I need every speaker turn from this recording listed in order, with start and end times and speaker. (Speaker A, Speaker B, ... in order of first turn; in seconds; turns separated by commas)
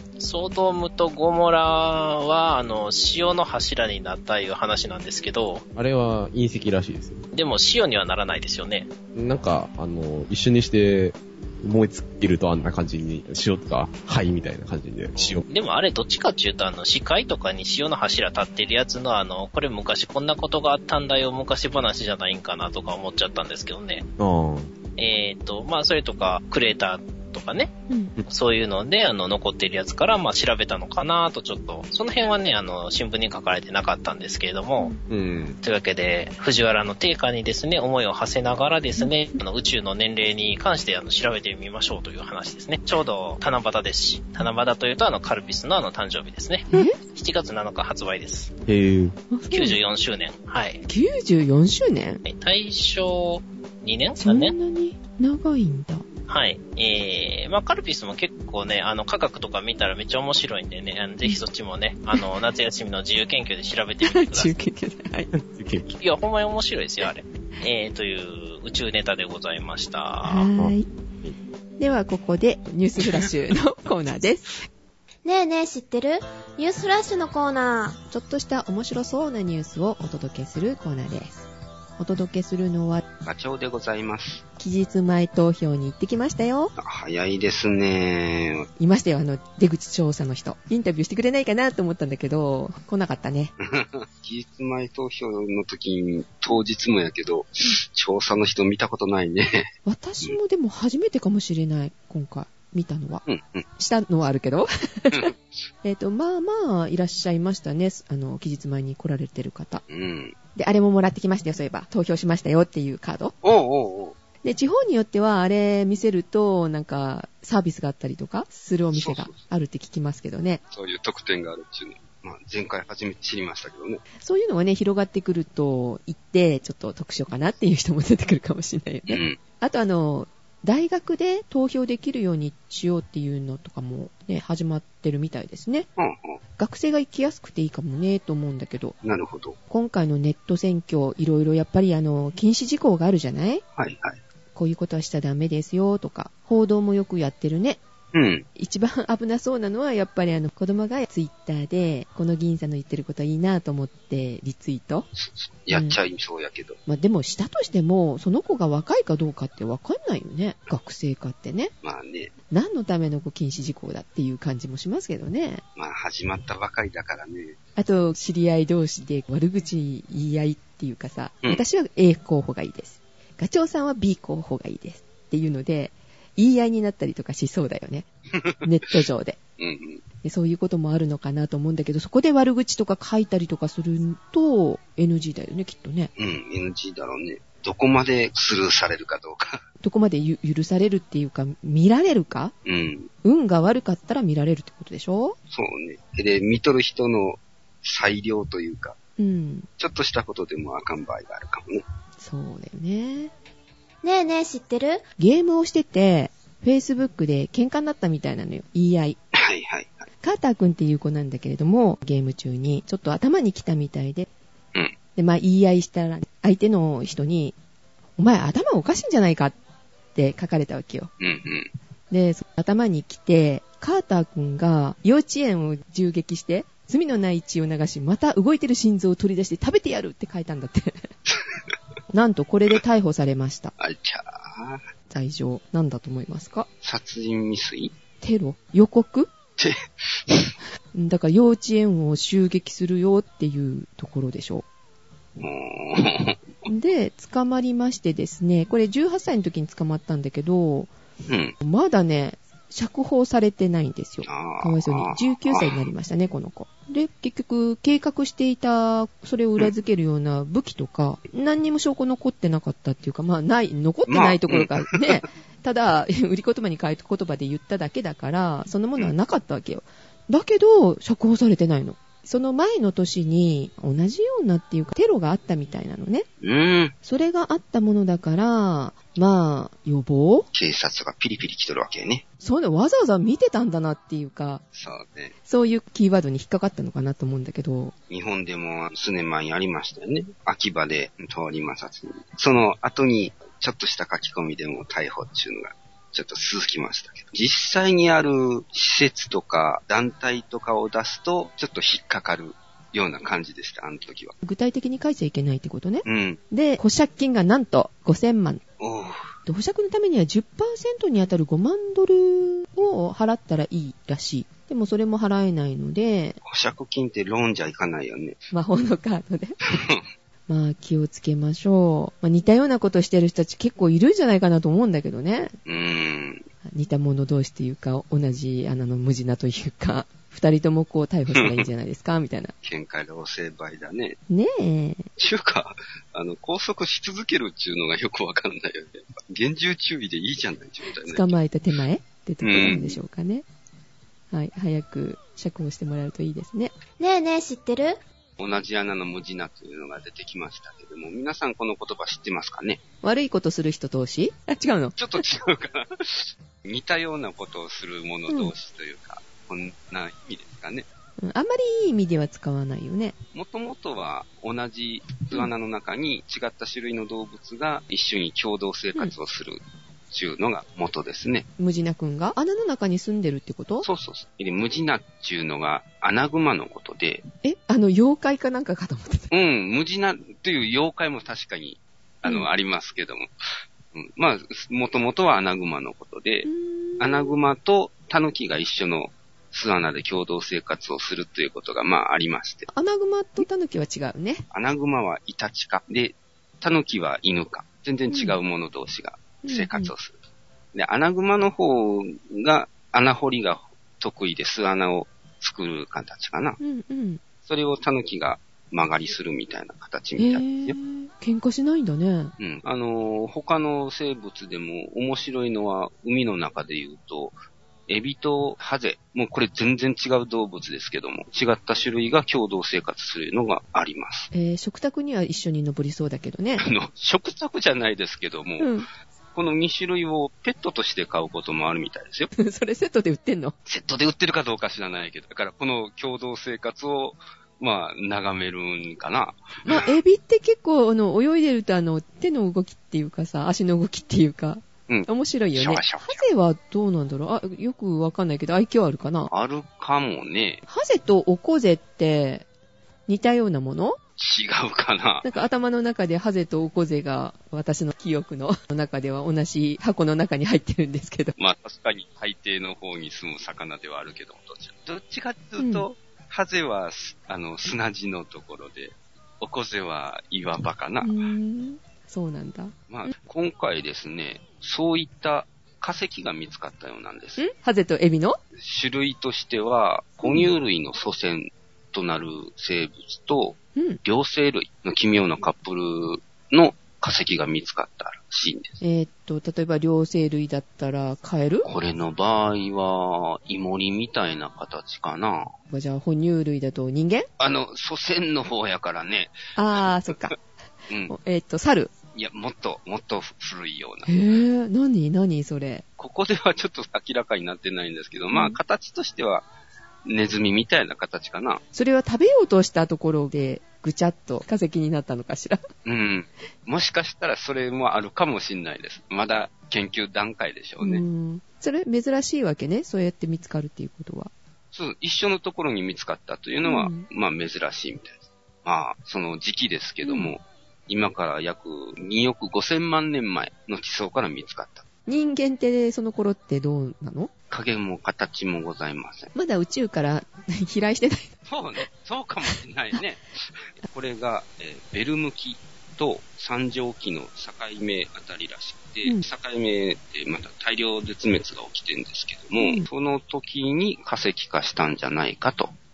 Speaker A: 0.2-5.6, Speaker B: 5.8-7.3, Speaker A: 7.3-8.9, Speaker B: 9.1-15.5, Speaker A: 15.2-24.1, Speaker B: 24.2-24.7, Speaker A: 25.0-27.7, Speaker C: 27.9-28.1, Speaker A: 28.3-34.9, Speaker B: 35.1-35.6, Speaker A: 35.6-48.5, Speaker C: 46.7-47.0, Speaker B: 48.7-49.2, Speaker C: 49.3-49.8, Speaker A: 49.5-50.8, Speaker C: 50.9-52.2, Speaker A: 52.2-54.5, Speaker C: 54.2-56.0, Speaker A: 56.3-64.5, Speaker C: 64.0-65.3, Speaker B: 65.3-65.9, Speaker A: 66.0-70.5, Speaker C: 70.2-70.9, Speaker B: 70.5-71.4, Speaker C: 71.8-74.7, Speaker D: 75.2-78.0, Speaker C: 78.1-81.5, Speaker C: 82.0-83.0, Speaker E: 83.2-84.4, Speaker C: 84.6-86.7, Speaker E: 86.8-88.7, Speaker C: 88.8-93.5, Speaker E: 93.6-99.7, Speaker C: 99.9-103.2, Speaker E: 103.3-103.6, Speaker C: 103.8-105.3, Speaker E: 105.1-105.6, Speaker C: 105.8-109.8, Speaker E: 109.9-110.4, Speaker C: 110.5-113.3, Speaker E: 113.4-114.2, Speaker C: 114.4-120.6, Speaker E: 118.9-119.5, Speaker E: 120.7-124.0, Speaker C: 124.2-135.9, Speaker E: 129.1-129.4, Speaker E: 136.0-136.4, Speaker C: 136.6-138.9, Speaker E: 139.0-139.6, Speaker C: 139.7-143.6, Speaker E: 143.8-144.2, Speaker C: 144.5-147.8, Speaker E: 148.1-148.5, Speaker C: 148.6-155.1, Speaker E: 155.2-156.8, Speaker C: 155.7-156.0, Speaker C: 156.9-161.7, Speaker E: 161.8-162.3, Speaker C: 162.5-165.6, Speaker E: 165.8-167.6, Speaker C: 167.8-178.1, Speaker E: 178.3-178.7, Speaker C: 178.6-179.4, Speaker E: 179.6-180.0, Speaker C: 180.2-186.1, Speaker E: 186.2-189.6, Speaker C: 189.8-192.5, Speaker E: 192.7-193.1, Speaker C: 193.2-195.4, Speaker E: 195.5-199.0, Speaker C: 199.2-199.7, Speaker E: 199.8-201.8, Speaker C: 202.2-203.3, Speaker D: 204.0-205.0, Speaker C: 205.2-209.2, Speaker E: 209.3-210.1, Speaker C: 210.2-214.3, Speaker C: 215.2-217.6, Speaker C: 218.2-219.6, Speaker C: 220.2-221.1, Speaker E: 221.2-221.7, Speaker C: 222.1-231.1, Speaker E: 231.3-231.7, Speaker C: 232.1-233.7, Speaker E: 233.8-234.8, Speaker C: 235.1-236.7, Speaker E: 236.8-237.9, Speaker C: 238.2-239.3, Speaker E: 239.6-240.5, Speaker C: 240.9-244.7, Speaker E: 245.4-246.4, Speaker C: 246.7-250.9, Speaker E: 251.3-251.6, Speaker C: 251.6-276.3, Speaker E: 254.2-255.8, Speaker E: 264.1-265.2, Speaker E: 276.4-276.9, Speaker C: 277.0-280.5, Speaker E: 280.5-282.2, Speaker C: 282.4-284.6, Speaker E: 284.7-285.4, Speaker C: 285.5-287.9, Speaker E: 288.1-304.4, Speaker C: 304.4-308.6, Speaker E: 306.1-306.4, Speaker E: 308.8-309.3, Speaker C: 309.5-316.4, Speaker E: 316.4-318.4, Speaker C: 318.5-319.6, Speaker E: 319.6-320.1, Speaker C: 320.5-325.5, Speaker E: 325.7-326.5, Speaker C: 326.7-332.5, Speaker E: 331.3-331.7, Speaker E: 332.6-334.2, Speaker C: 334.3-335.1, Speaker E: 335.2-341.4, Speaker C: 341.1-343.4, Speaker E: 342.4-343.0, Speaker C: 344.3-346.7, Speaker D: 347.0-348.0, Speaker E: 348.4-352.8, Speaker C: 353.0-355.2, Speaker E: 355.0-360.9, Speaker C: 358.3-358.5, Speaker C: 361.2-363.1, Speaker E: 363.3-371.5, Speaker C: 371.6-373.9, Speaker E: 373.8-377.3, Speaker C: 377.4-379.3, Speaker E: 379.3-383.3, Speaker E: 383.9-386.5, Speaker C: 386.4-387.4, Speaker E: 387.0-392.7, Speaker C: 392.7-394.4, Speaker E: 394.5-400.2, Speaker C: 398.1-398.4, Speaker C: 399.4-399.9, Speaker E: 400.7-406.6, Speaker C: 406.6-407.2, Speaker E: 407.4-410.8, Speaker C: 410.2-412.3, Speaker E: 412.4-417.4, Speaker E: 417.9-424.3, Speaker C: 424.3-426.6, Speaker E: 426.6-428.7, Speaker C: 428.6-428.9, Speaker E: 429.3-432.3, Speaker C: 432.4-433.6, Speaker E: 433.7-440.0, Speaker C: 439.6-449.3, Speaker E: 444.9-446.3, Speaker E: 449.3-450.6, Speaker C: 450.7-452.4, Speaker C: 453.1-454.0, Speaker E: 454.2-455.3, Speaker C: 455.2-461.4, Speaker E: 461.4-471.1, Speaker C: 465.6-465.9, Speaker C: 471.0-472.7, Speaker E: 472.9-477.5, Speaker C: 477.4-478.4, Speaker E: 478.6-488.8, Speaker C: 480.2-480.5, Speaker C: 488.8-491.7, Speaker E: 491.6-495.5, Speaker C: 495.7-497.3, Speaker E: 497.4-500.3, Speaker C: 499.6-500.4, Speaker E: 500.9-501.1, Speaker C: 501.1-501.9, Speaker E: 502.1-504.2, Speaker C: 504.1-505.9, Speaker E: 506.0-509.5, Speaker C: 508.3-508.6, Speaker E: 510.1-511.6, Speaker C: 511.7-515.6, Speaker E: 515.9-521.0, Speaker C: 520.8-524.3, Speaker E: 524.7-534.9, Speaker C: 526.6-527.1, Speaker C: 530.0-530.4, Speaker C: 535.1-537.3, Speaker E: 537.5-539.3, Speaker C: 539.4-541.3, Speaker E: 541.5-555.7, Speaker C: 552.6-552.9